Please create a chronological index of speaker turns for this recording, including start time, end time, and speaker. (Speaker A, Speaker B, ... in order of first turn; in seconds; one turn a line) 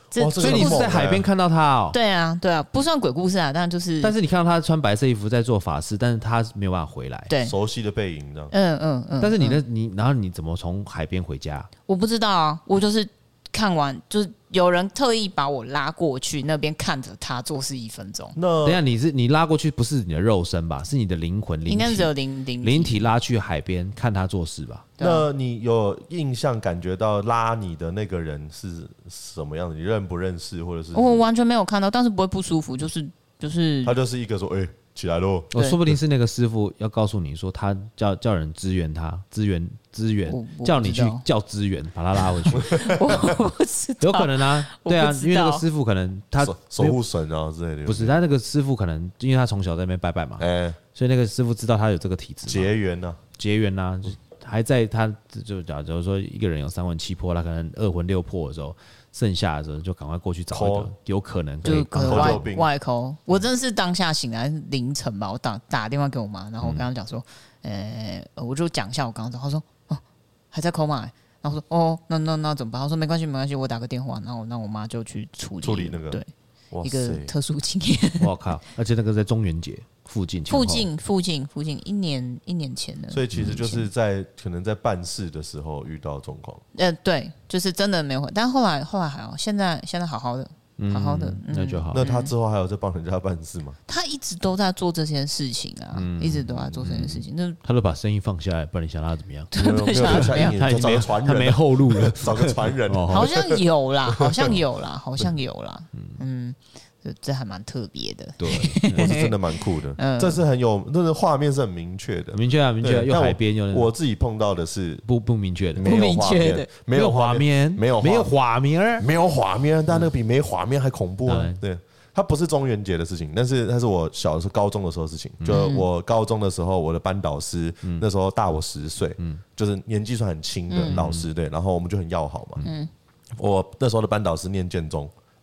Speaker A: 0.1-0.9
Speaker B: 0.1-1.3
Speaker C: 0.4-2.0
Speaker A: 1.9-4.1
Speaker C: 4.0-7.3
Speaker A: 7.3-7.5
Speaker B: 7.4-8.5
Speaker A: 8.5-9.6
Speaker C: 9.2-11.7
Speaker A: 11.9-18.4
Speaker B: 18.4-18.8
Speaker C: 18.6-22.1
Speaker A: 21.7-23.0
Speaker C: 22.6-24.9
Speaker A: 25.0-25.2
Speaker B: 25.0-31.2
Speaker A: 30.9-34.0
Speaker B: 33.8-35.5
Speaker C: 35.5-42.8
Speaker A: 40.3-41.2
Speaker A: 42.5-45.6
Speaker B: 42.5-43.3
Speaker C: 44.0-47.0
Speaker B: 46.4-48.2
Speaker C: 47.9-52.7
Speaker B: 50.4-50.8
Speaker B: 52.5-53.2
Speaker C: 53.4-62.5
Speaker B: 60.5-60.9
Speaker A: 61.6-76.3
Speaker B: 62.0-62.7
Speaker C: 66.6-66.9
Speaker B: 75.6-76.2
Speaker B: 76.7-77.3
Speaker A: 76.8-78.3
Speaker C: 78.2-80.9
Speaker A: 80.5-83.9
Speaker B: 83.1-86.6
Speaker C: 83.3-83.6
Speaker A: 86.7-92.3
Speaker C: 90.8-92.0
Speaker B: 91.9-93.8
Speaker A: 93.9-97.6
Speaker C: 95.9-103.3
Speaker A: 99.5-100.6
Speaker B: 99.5-104.6
Speaker A: 103.1-110.4
Speaker C: 108.4-109.1
Speaker B: 108.9-115.0
Speaker C: 112.3-113.9
Speaker C: 115.0-115.9
Speaker B: 115.7-118.3
Speaker A: 115.8-116.7
Speaker C: 116.9-119.1
Speaker B: 119.0-132.7
Speaker C: 121.3-121.6
Speaker C: 125.4-125.7
Speaker A: 125.5-125.8
Speaker A: 130.7-131.0
Speaker C: 130.8-131.2
Speaker A: 132.6-132.9
Speaker B: 133.3-135.1